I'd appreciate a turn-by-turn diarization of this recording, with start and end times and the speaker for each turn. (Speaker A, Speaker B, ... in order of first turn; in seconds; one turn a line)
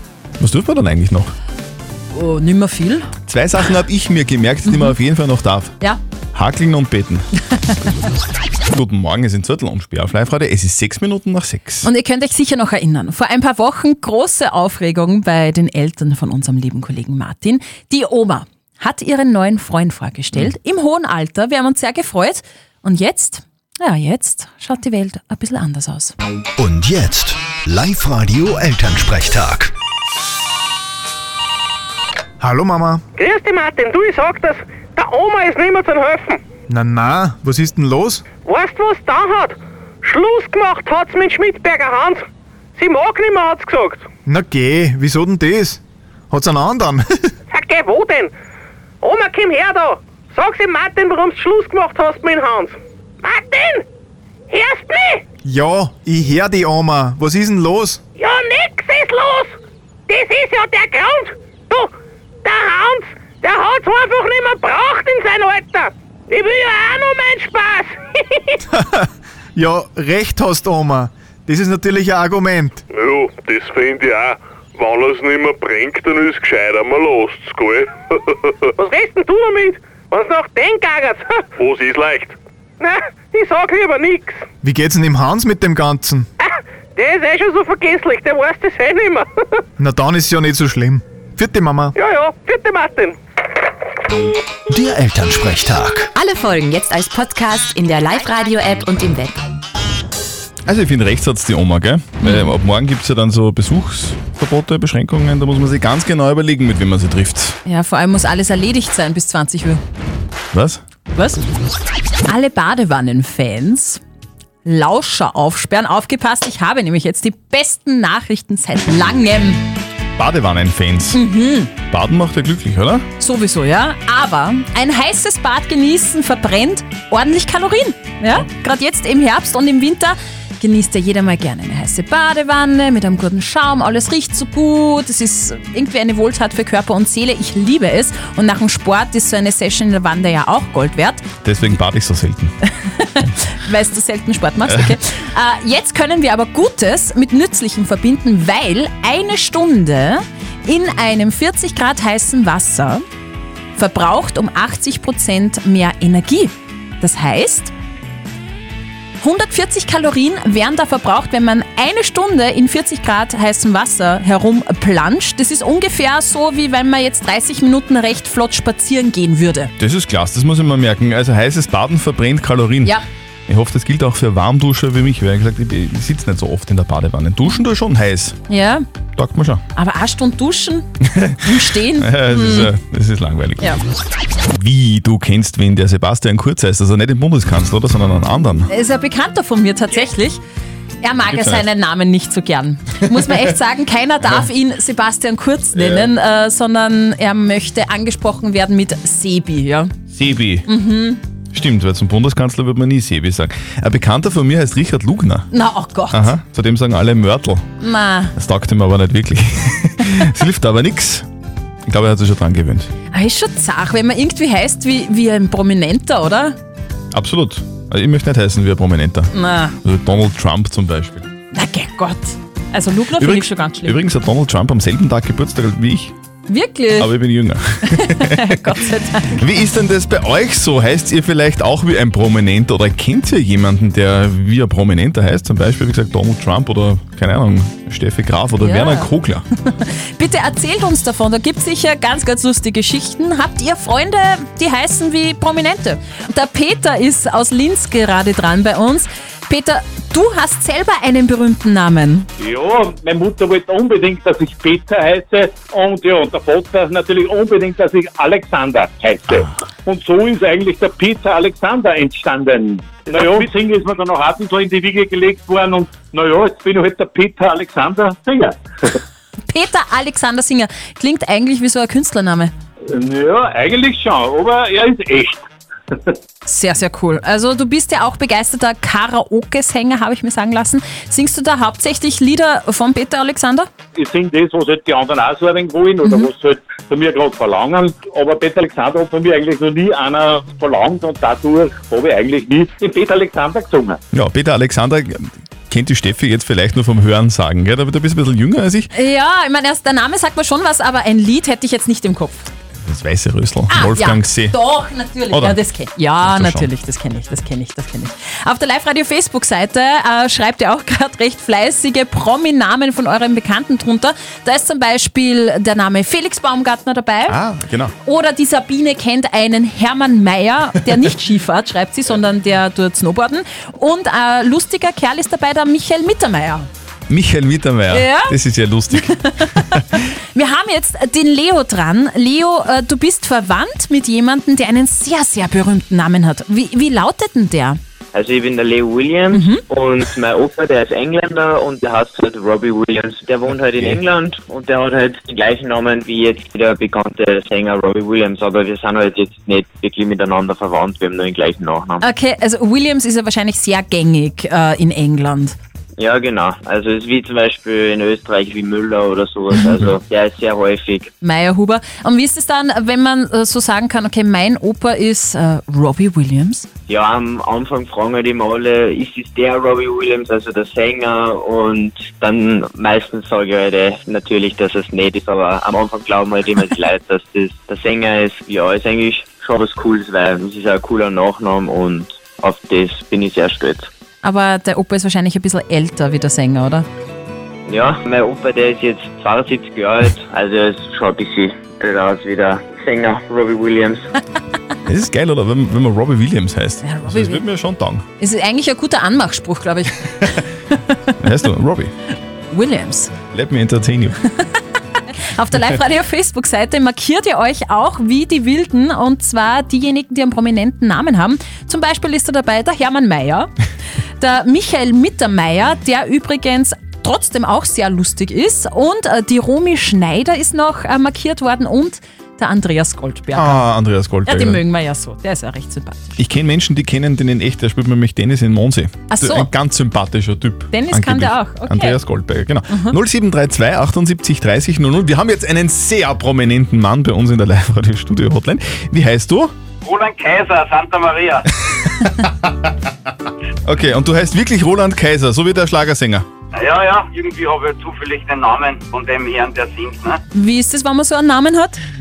Speaker A: 0.4-1.3
Speaker B: 2.1-3.1
Speaker A: 3.3-5.7
Speaker A: 6.3-7.3
Speaker A: 8.7-11.9
Speaker B: 11.8-26.1
Speaker C: 26.6-29.7
Speaker D: 32.4-33.0
Speaker E: 33.2-36.4
Speaker D: 36.7-38.2
Speaker E: 38.5-44.1
Speaker D: 44.3-45.8
Speaker D: 46.3-47.1
Speaker E: 47.5-48.3
Speaker E: 49.0-53.9
Speaker E: 54.5-55.2
Speaker D: 55.5-58.0
Speaker E: 58.2-59.6
Speaker E: 60.1-61.9
Speaker E: 62.4-68.6
Speaker D: 68.8-69.0
Speaker D: 69.5-72.8
Speaker F: 72.9-77.9
Speaker E: 78.8-81.5
Speaker F: 81.6-82.3
Speaker E: 82.8-84.5
Speaker D: 84.6-86.3
Speaker E: 86.4-89.6
Speaker D: 89.8-91.9
Speaker E: 92.0-93.2
Speaker C: 94.7-96.1
Speaker G: 96.2-99.3
Speaker A: 100.7-107.6
Speaker B: 102.2-102.5
Speaker B: 107.7-109.8
Speaker A: 110.5-110.8
Speaker B: 111.1-111.4
Speaker B: 112.3-114.0
Speaker B: 114.6-119.6
Speaker A: 120.2-121.2
Speaker B: 121.1-121.7
Speaker A: 121.9-123.1
Speaker B: 123.2-141.2
Speaker A: 141.4-142.5
Speaker B: 142.9-153.0
Speaker B: 153.8-157.7
Speaker B: 159.2-169.7
Speaker A: 169.8-178.4
Speaker B: 178.5-178.8
Speaker A: 179.2-179.6
Speaker B: 179.8-180.9
Speaker A: 181.1-181.4
Speaker B: 181.4-182.7
Speaker A: 182.0-183.8
Speaker A: 184.5-188.7
Speaker B: 188.7-190.4
Speaker B: 191.0-199.9
Speaker A: 191.3-191.7
Speaker A: 195.7-196.1
Speaker A: 200.1-200.7
Speaker B: 200.7-201.2
Speaker A: 201.5-205.5
Speaker B: 205.5-206.3
Speaker A: 206.1-207.7
Speaker B: 207.8-208.3
Speaker A: 208.3-211.3
Speaker A: 211.9-212.9
Speaker B: 213.1-216.6
Speaker A: 217.1-219.3
Speaker B: 219.3-219.8
Speaker A: 219.8-221.3
Speaker B: 221.5-224.0
Speaker A: 223.2-226.2
Speaker B: 226.5-227.2
Speaker A: 227.0-228.6
Speaker B: 227.9-229.4
Speaker A: 229.3-239.4
Speaker B: 238.6-239.1
Speaker B: 239.7-252.3
Speaker H: 252.4-268.9
Speaker B: 269.5-272.5
Speaker H: 272.9-275.4
Speaker B: 276.4-283.7
Speaker H: 284.0-294.0
Speaker B: 286.0-286.3
Speaker A: 294.1-298.9
Speaker B: 298.9-302.5
Speaker A: 302.8-304.6
Speaker B: 303.7-317.4
Speaker A: 305.3-305.6
Speaker A: 306.2-306.7
Speaker A: 317.3-317.9
Speaker B: 318.0-326.7
Speaker A: 327.1-329.8
Speaker B: 327.9-328.4
Speaker B: 328.9-337.8
Speaker I: 338.1-352.0
Speaker B: 339.3-339.6
Speaker B: 352.0-355.6
Speaker I: 356.0-361.1
Speaker B: 361.2-366.7
Speaker I: 366.9-383.9
Speaker B: 384.2-386.9
Speaker I: 387.7-394.1
Speaker A: 394.9-398.0
Speaker B: 396.8-397.4
Speaker B: 398.2-401.1
Speaker A: 401.2-401.9
Speaker B: 402.5-403.1
Speaker A: 403.3-404.2
Speaker B: 405.2-413.5
Speaker B: 414.2-423.6
Speaker A: 423.4-424.6
Speaker B: 424.3-426.2
Speaker A: 426.2-439.5
Speaker B: 429.1-429.5
Speaker B: 430.7-432.0
Speaker J: 439.8-441.5
Speaker A: 443.6-446.3
Speaker J: 446.5-450.2
Speaker B: 450.3-451.8